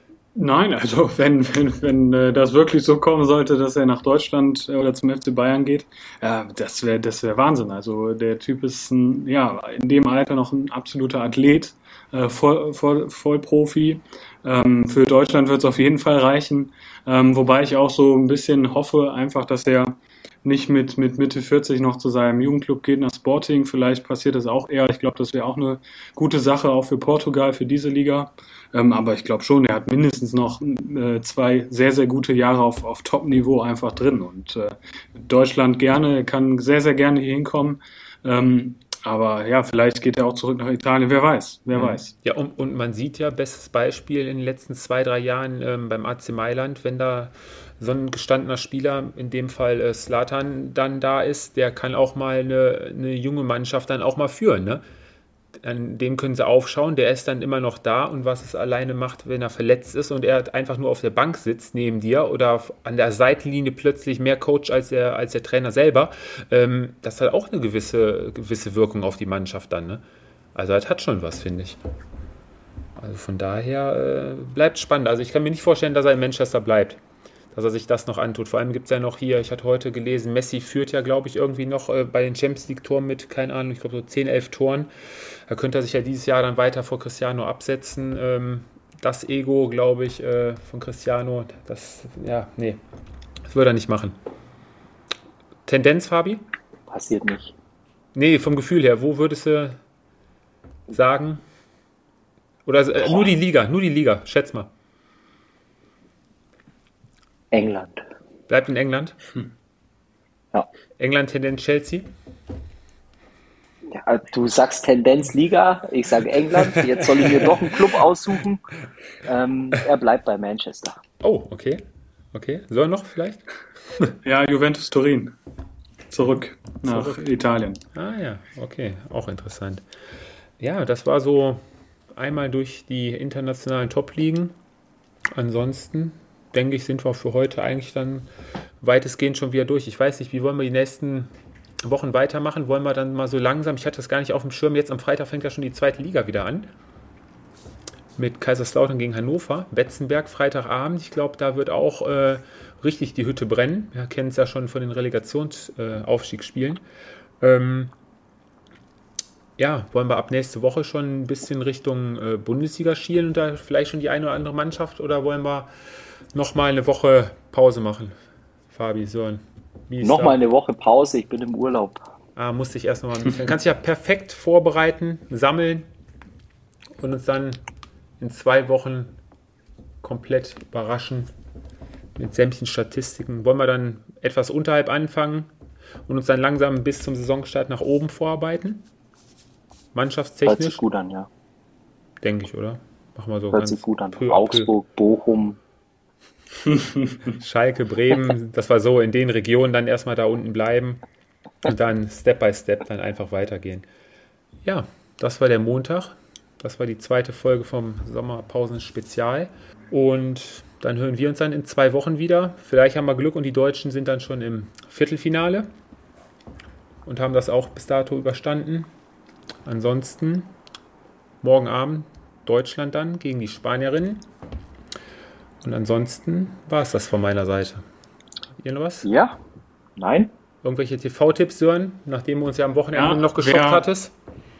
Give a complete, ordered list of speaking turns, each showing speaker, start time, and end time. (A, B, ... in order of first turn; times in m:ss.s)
0:00.3-0:42.1 A
0:41.7-0:54.8 B
0:55.6-1:10.0 B
1:10.5-1:11.8 B
1:13.0-1:17.0 B
1:17.5-1:24.9 B
1:25.5-1:32.8 B
1:33.4-1:34.2 B
1:35.6-1:36.4 B
1:36.9-1:37.5 C
1:38.1-1:39.8 B
1:40.9-1:41.4 B
1:42.6-1:44.7 B
1:47.5-1:48.0 C
1:48.5-1:49.2 B
1:51.0-1:52.1 B
1:53.9-1:58.6 C
1:59.2-2:01.0 C
2:01.2-2:01.8 B
2:02.3-2:04.1 B
2:04.2-2:05.3 A
2:06.1-2:07.8 A
2:06.9-2:07.2 B
2:07.9-2:09.8 B
2:10.6-2:11.6 B
2:12.1-2:14.5 B
2:15.3-2:18.3 B
2:18.8-2:21.3 B
2:21.8-2:26.7 B
2:28.2-2:36.8 B
2:37.4-2:37.9 B
2:39.6-2:45.7 B
2:46.3-2:48.2 B
2:48.7-2:50.4 B
2:50.0-2:52.0 C
2:52.4-2:55.9 B
2:57.0-2:57.6 B
2:58.2-2:59.2 B
3:00.0-3:01.3 B
3:02.2-3:05.5 B
3:06.0-3:08.8 B
3:09.9-3:10.8 B
3:10.4-3:11.3 C
3:12.2-3:14.7 B
3:13.5-3:15.6 C
3:16.6-3:17.2 A
3:17.3-3:21.0 B
3:21.6-3:23.8 B
3:24.6-3:35.7 B
3:37.0-3:38.9 B
3:39.6-3:40.5 B
3:41.4-3:44.2 B
3:45.6-3:47.8 B
3:48.6-3:49.1 B
3:49.0-3:49.4 C
3:50.0-3:50.3 C
3:50.6-3:54.1 B
3:52.9-3:53.9 A